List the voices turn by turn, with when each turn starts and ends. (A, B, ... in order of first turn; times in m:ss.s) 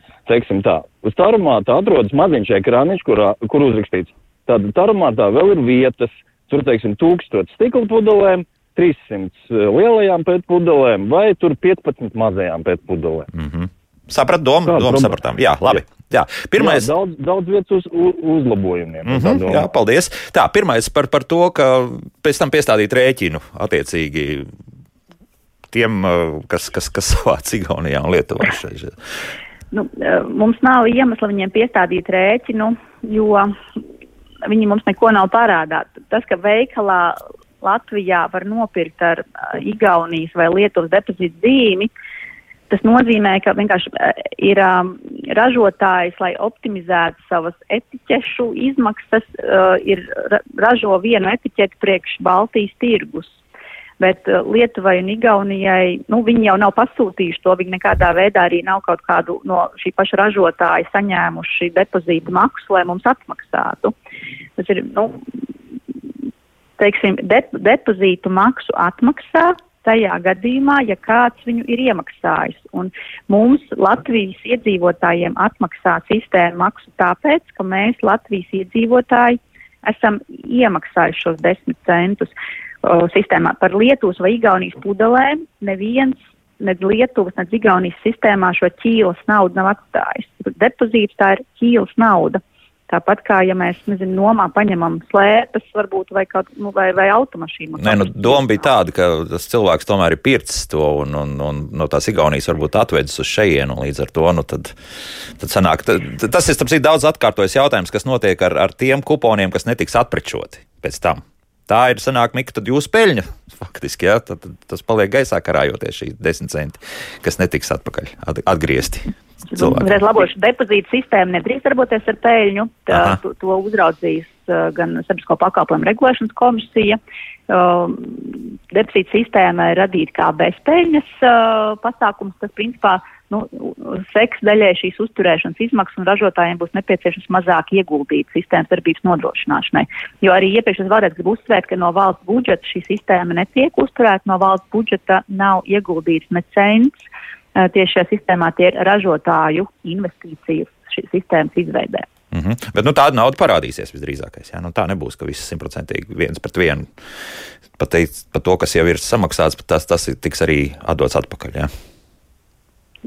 0:00.3-0:13.3 A
0:13.3-0:16.9 B
0:14.6-0:15.2 A
0:16.6-0:19.7 A
0:19.0-0:24.5 B
0:25.7-0:28.9 B
0:29.7-0:33.5 C
0:34.4-0:41.9 C
0:42.7-0:53.4 C
0:54.0-1:03.9 C
1:04.6-1:05.2 C
1:06.8-1:22.3 C
1:22.8-1:38.6 C
1:37.8-1:44.8 B
1:45.3-2:00.0 B
1:59.5-2:07.0 C
2:02.9-2:03.2 B
2:07.5-2:27.0 C
2:27.6-2:32.1 C
2:32.3-2:36.9 B
2:37.8-2:41.7 B